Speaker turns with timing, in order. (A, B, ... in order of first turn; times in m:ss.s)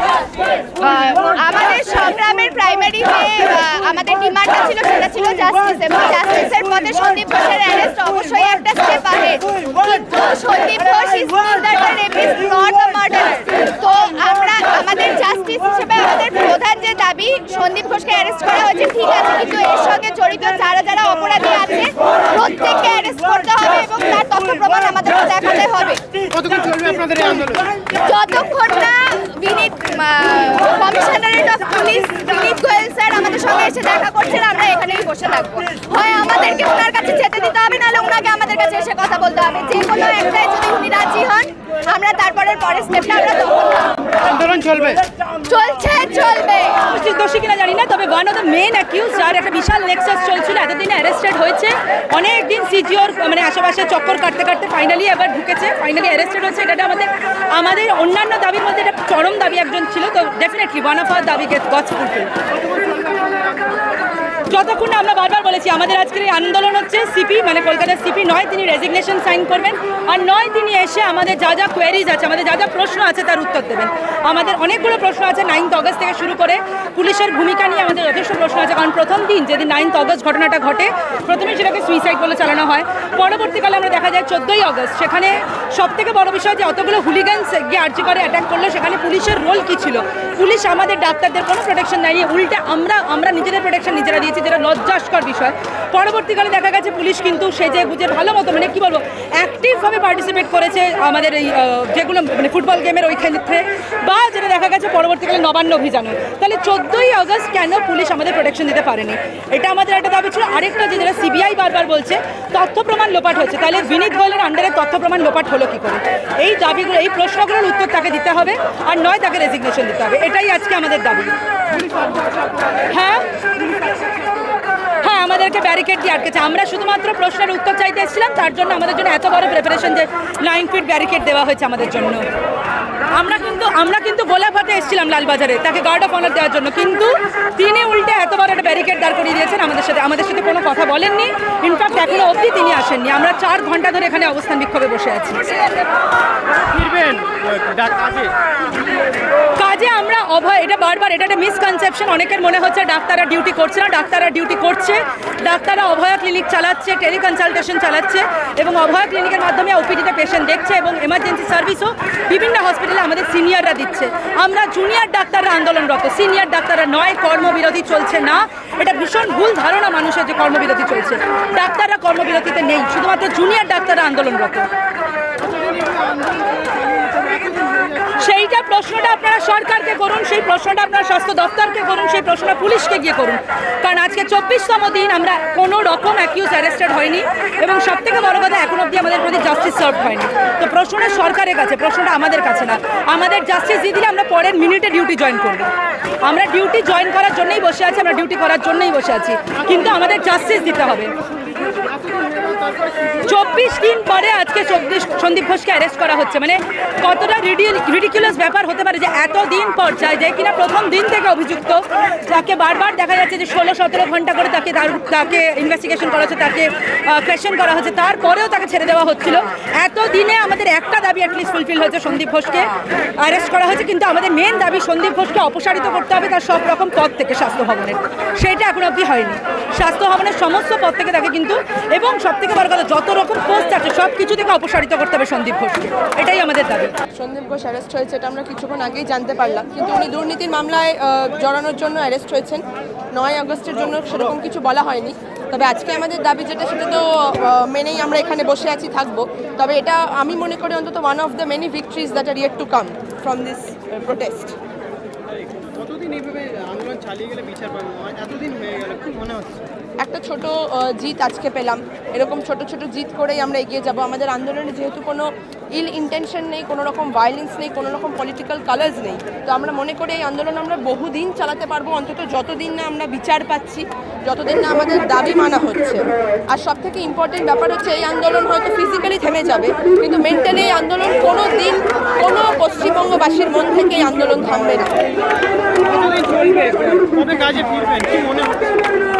0:00.8-0:26.0 A
0:26.3-0:27.7 B
0:28.0-0:44.0 A
0:44.2-0:45.0 B
0:45.4-0:46.8 A
0:46.9-1:02.3 C
1:02.6-1:03.8 B
1:04.5-2:01.3 C
2:02.9-2:03.2 C
2:05.0-2:12.2 C
2:13.1-2:25.5 C
2:26.7-2:28.3 B
2:29.6-2:54.7 C
2:55.4-2:58.2 B
2:58.2-3:15.7 C
3:16.2-3:21.1 C
3:21.6-3:23.2 B
3:23.2-3:42.7 C
3:43.2-3:57.0 C
3:57.1-4:02.6 D
4:03.1-4:14.5 D
4:15.5-4:19.6 B
4:20.0-4:45.0 D
4:45.8-4:48.8 B